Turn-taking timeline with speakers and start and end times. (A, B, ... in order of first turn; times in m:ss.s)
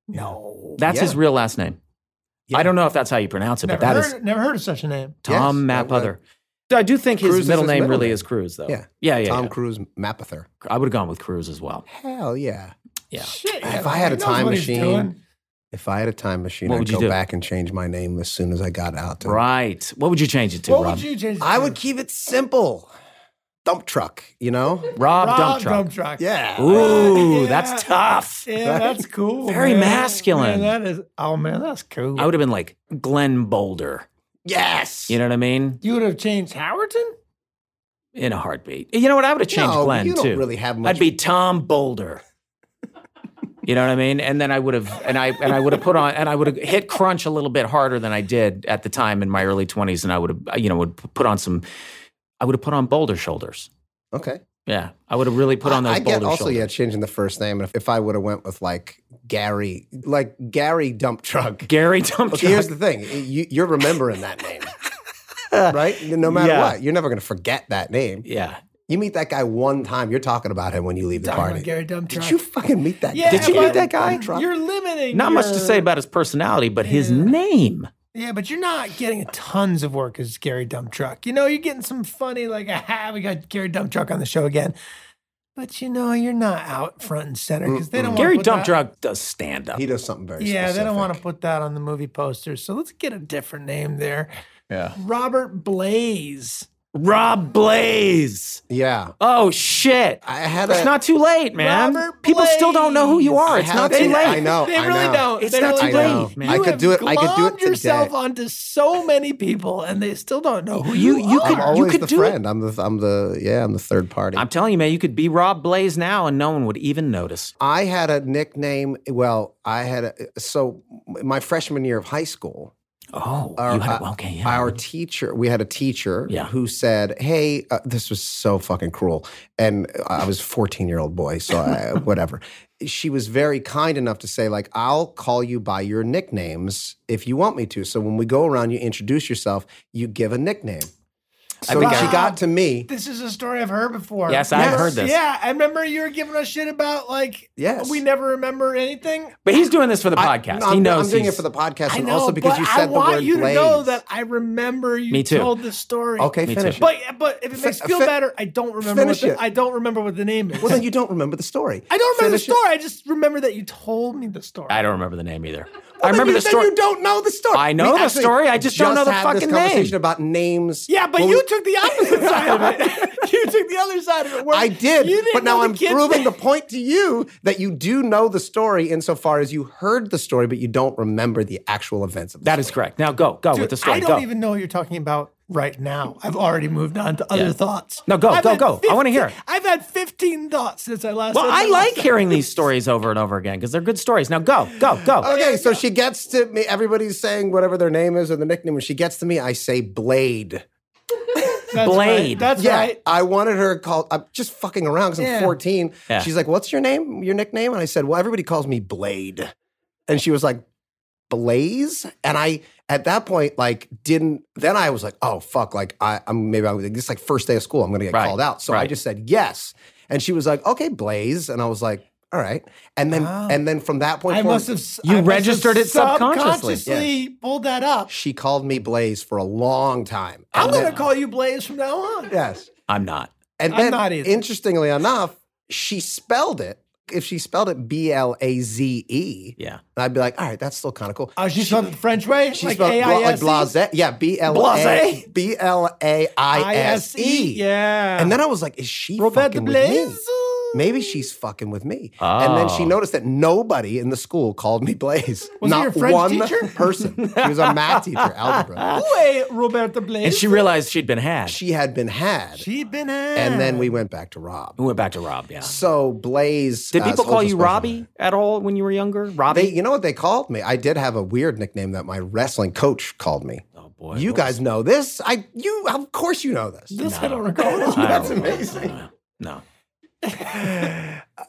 0:00.1-0:00.4 A
0:00.1-0:01.2 B
0:00.8-0:01.8 C
0:02.5-0:04.1 C
0:03.6-0:05.2 A
0:05.2-0:06.2 C
0:05.3-0:06.1 B
0:06.7-0:09.5 C
0:07.2-0:10.5 B
0:10.6-0:11.8 C
0:11.9-0:12.7 B
0:13.2-0:15.2 A
0:13.6-0:15.1 B
0:15.7-0:19.4 B
0:16.7-0:17.2 C
0:19.2-0:21.0 C
0:20.7-0:21.8 A
0:21.4-0:22.9 B
0:23.6-0:25.0 B
0:25.0-0:25.9 C
0:25.2-0:27.9 A
0:26.2-0:27.2 B
0:26.6-0:28.5 C
0:28.5-0:32.3 A
0:28.6-0:29.0 B
0:29.4-0:30.8 C
0:32.2-0:34.1 C
0:34.4-0:35.2 B
0:35.1-0:35.8 C
0:35.8-0:37.1 A
0:38.2-0:42.2 C
0:39.5-0:41.1 B
0:43.6-0:51.6 C
0:52.4-0:53.7 C
0:54.1-0:54.4 B
0:54.7-0:56.7 C
0:55.6-1:01.7 B
1:01.7-1:02.7 C
1:02.3-1:04.7 B
1:05.5-1:06.8 C
1:05.7-1:08.2 B
1:08.2-1:08.6 C
1:08.9-1:14.5 B
1:11.2-1:12.4 A
1:13.1-1:15.9 A
1:13.3-1:14.3 C
1:15.1-1:17.9 C
1:16.8-1:17.4 A
1:18.1-1:24.8 A
1:25.6-1:28.7 A
1:27.7-1:28.3 B
1:28.2-1:29.8 C
1:29.7-1:31.2 B
1:30.4-1:34.3 A
1:34.7-1:35.0 C
1:35.0-1:36.7 A
1:36.9-1:38.6 C
1:38.7-1:39.1 B
1:39.2-1:44.6 C
1:40.2-1:40.9 B
1:41.6-1:51.8 A
1:43.5-1:48.1 B
1:45.4-1:46.7 C
1:50.8-1:52.4 C
1:51.4-1:54.4 B
1:54.3-1:57.5 C
1:57.6-2:02.7 B
2:03.1-2:04.8 C
2:03.6-2:20.9 B
2:21.6-2:22.2 C
2:21.6-2:22.9 B
2:21.7-2:29.5 A
2:24.3-2:25.2 C
2:24.5-2:25.0 B
2:27.6-2:28.0 B
2:29.4-2:31.4 C
2:30.2-2:34.0 B
2:31.9-2:40.8 A
2:35.1-2:35.5 C
2:36.2-2:36.9 B
2:36.5-2:36.8 C
2:37.5-2:38.1 B
2:38.8-2:39.4 B
2:40.6-2:42.6 B
2:41.9-2:44.8 A
2:44.7-2:46.8 C
2:46.0-2:53.2 B
2:47.5-2:50.0 C
2:50.9-2:56.4 A
2:54.4-3:02.8 B
3:02.4-3:04.3 C
3:03.5-3:12.5 A
3:08.1-3:09.4 C
3:11.3-3:15.3 C
3:15.2-3:20.6 B
3:15.2-3:15.8 A
3:21.7-3:23.0 A
3:21.7-3:22.5 C
3:22.6-3:29.5 B
3:25.2-3:25.6 A
3:30.1-3:30.6 B
3:31.3-3:44.7 B
3:38.1-3:38.9 C
3:43.1-3:43.6 A
3:44.3-3:48.1 A
3:45.0-3:46.8 C
3:48.1-3:51.0 B
3:50.5-3:52.4 A
3:50.6-3:51.1 C
3:52.3-3:52.7 B
3:52.9-3:53.3 C
3:53.6-4:01.9 B
3:53.7-3:54.4 A
4:01.4-4:03.7 A
4:02.5-4:07.6 B
4:04.5-4:05.2 A
4:06.6-4:08.4 A
4:08.2-4:10.2 B
4:09.2-4:11.2 A
4:10.7-4:18.9 B
4:12.2-4:13.0 C
4:15.6-4:16.7 A
4:17.2-4:19.1 C
4:18.9-4:20.7 A
4:20.2-4:21.6 C
4:21.5-4:22.6 B
4:22.6-4:24.0 A
4:23.4-4:24.8 B
4:24.8-4:25.8 C
4:25.6-4:28.0 B
4:26.9-4:29.7 C
4:29.5-4:37.0 B
4:33.8-4:34.6 C
4:36.9-4:38.6 A
4:37.0-4:39.6 C
4:37.6-4:39.0 B
4:40.2-4:41.0 A
4:40.6-4:41.2 B